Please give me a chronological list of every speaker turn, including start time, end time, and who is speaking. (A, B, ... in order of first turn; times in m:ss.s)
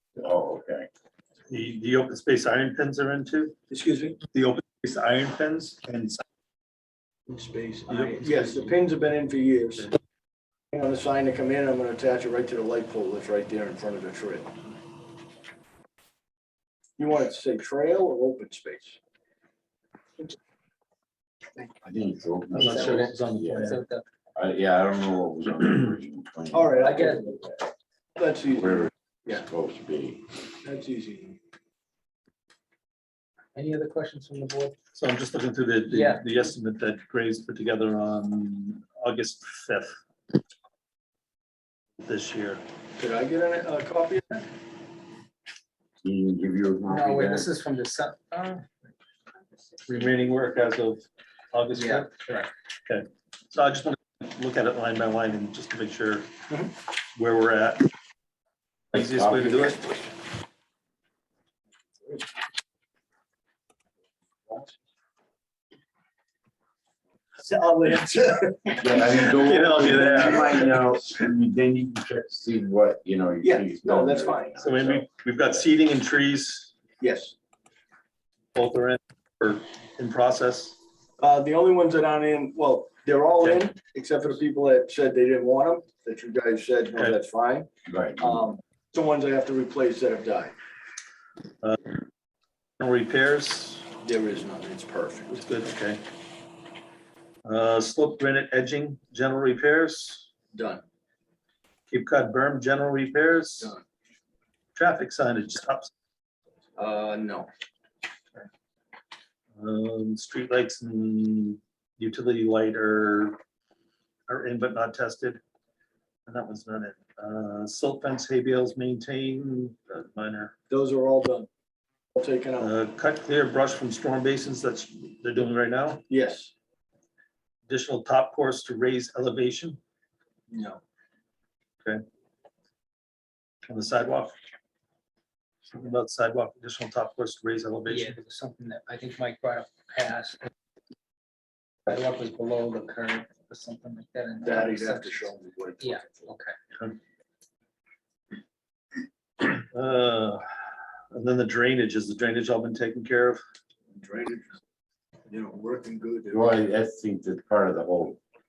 0:00.2-0:00.9 A
0:01.5-0:03.5 B
0:03.7-0:04.2 C
0:04.3-0:06.2 B
0:07.3-0:09.9 C
0:07.9-0:08.7 B
0:07.9-0:08.4 D
0:10.7-0:14.6 C
0:17.0-0:19.0 C
0:21.8-0:23.8 A
0:22.5-0:23.8 B
0:22.6-0:24.0 D
0:24.3-0:27.5 A
0:26.5-0:27.4 C
0:28.2-0:29.4 C
0:28.6-0:30.2 A
0:30.6-0:31.4 C
0:33.5-0:34.8 D
0:35.0-0:40.0 B
0:35.9-0:36.3 D
0:42.0-0:42.6 B
0:43.0-0:44.4 C
0:46.0-0:47.5 A
0:46.9-0:48.7 D
0:49.9-0:52.1 B
0:51.7-0:52.5 D
0:52.9-0:56.3 B
0:57.1-0:57.8 B
0:58.9-0:59.8 B
0:59.0-0:59.8 A
1:07.4-1:09.3 C
1:08.8-1:15.1 A
1:09.3-1:10.6 B
1:09.9-1:10.2 C
1:13.4-1:14.5 C
1:14.6-1:16.7 B
1:17.0-1:17.3 C
1:18.5-1:20.8 B
1:21.2-1:27.7 C
1:27.9-1:28.4 A
1:28.2-1:30.5 C
1:32.8-1:33.9 B
1:34.0-1:35.5 C
1:35.3-1:36.0 B
1:37.4-1:40.3 B
1:40.5-1:40.8 C
1:41.9-1:43.7 B
1:44.7-1:45.9 B
1:46.8-1:47.5 C
1:49.6-1:53.4 B
1:54.3-1:55.4 B
1:56.2-2:00.5 B
2:00.7-2:01.5 C
2:02.1-2:02.7 C
2:02.6-2:06.0 B
2:06.1-2:06.5 C
2:07.7-2:09.8 B
2:10.5-2:10.8 C
2:13.7-2:14.3 B
2:15.7-2:18.2 B
2:17.9-2:20.5 D
2:21.9-2:25.3 D
2:24.4-2:26.3 C
2:25.8-2:26.5 D
2:29.5-2:30.4 B
2:31.1-2:33.4 B
2:33.9-2:34.6 C
2:35.3-2:36.5 C
2:36.3-2:38.2 A